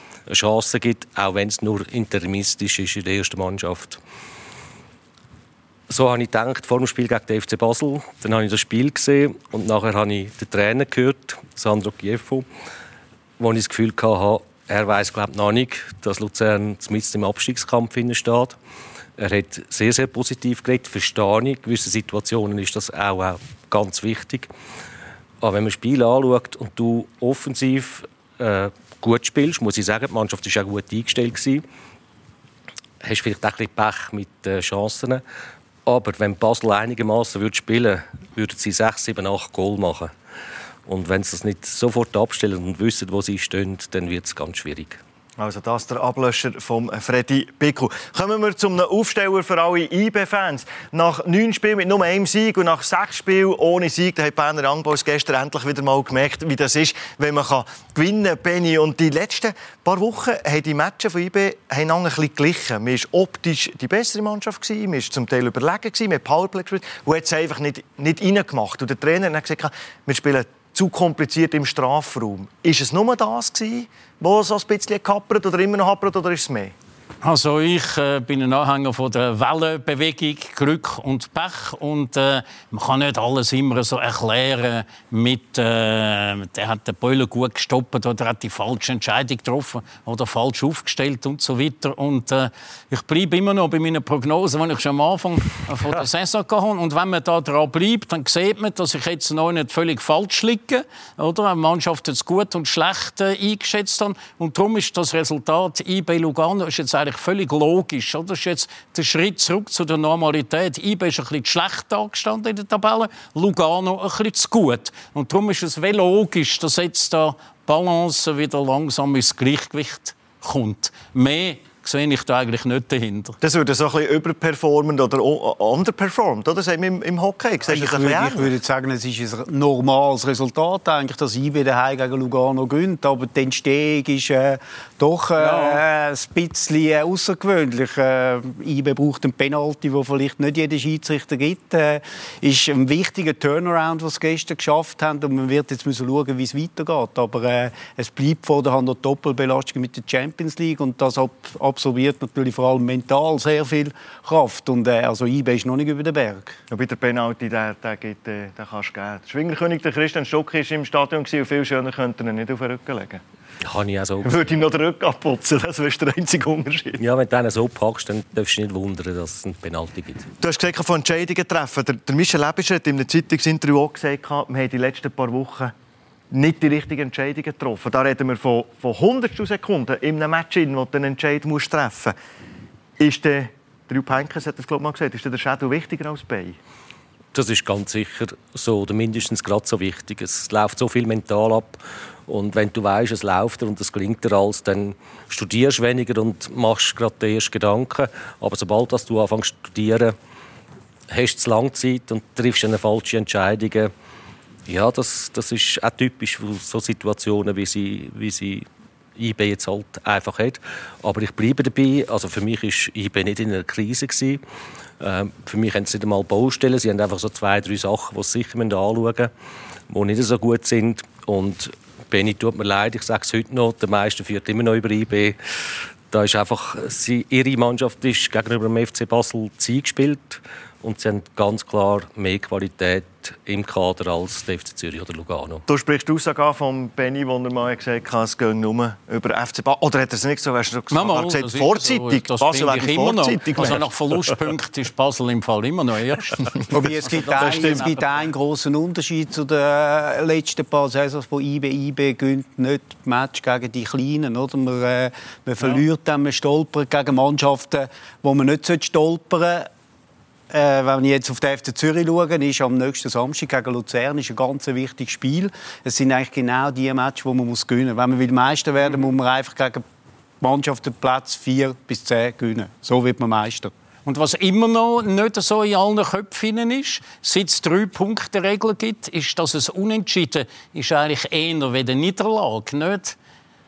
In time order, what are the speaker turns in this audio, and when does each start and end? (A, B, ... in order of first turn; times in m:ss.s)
0:00.3-0:04.0 A
0:05.9-0:12.5 A
0:13.4-0:18.6 A
0:19.2-0:24.5 A
0:25.4-0:31.6 A
0:33.0-0:35.2 A
0:35.9-0:40.1 A
0:40.9-0:45.0 A
0:45.4-1:16.7 B
1:17.2-2:03.4 C
2:03.4-2:08.5 B
2:07.7-2:36.6 D
2:15.4-2:15.8 C
2:36.7-2:43.2 B
2:43.6-2:44.4 A
2:44.2-2:47.0 B
2:47.0-2:50.3 A
2:50.4-2:55.7 B
2:56.3-3:02.2 B
3:03.0-3:06.6 B
3:07.3-3:20.2 A
3:21.1-3:23.9 A
3:24.7-3:34.4 A
3:35.0-3:39.3 A
3:39.9-3:45.4 A
3:46.1-3:55.6 A
3:55.7-4:03.8 B
4:00.9-4:08.0 C
4:06.7-4:19.7 D
4:20.5-4:29.8 D
4:30.4-4:33.7 D
4:34.1-4:43.2 C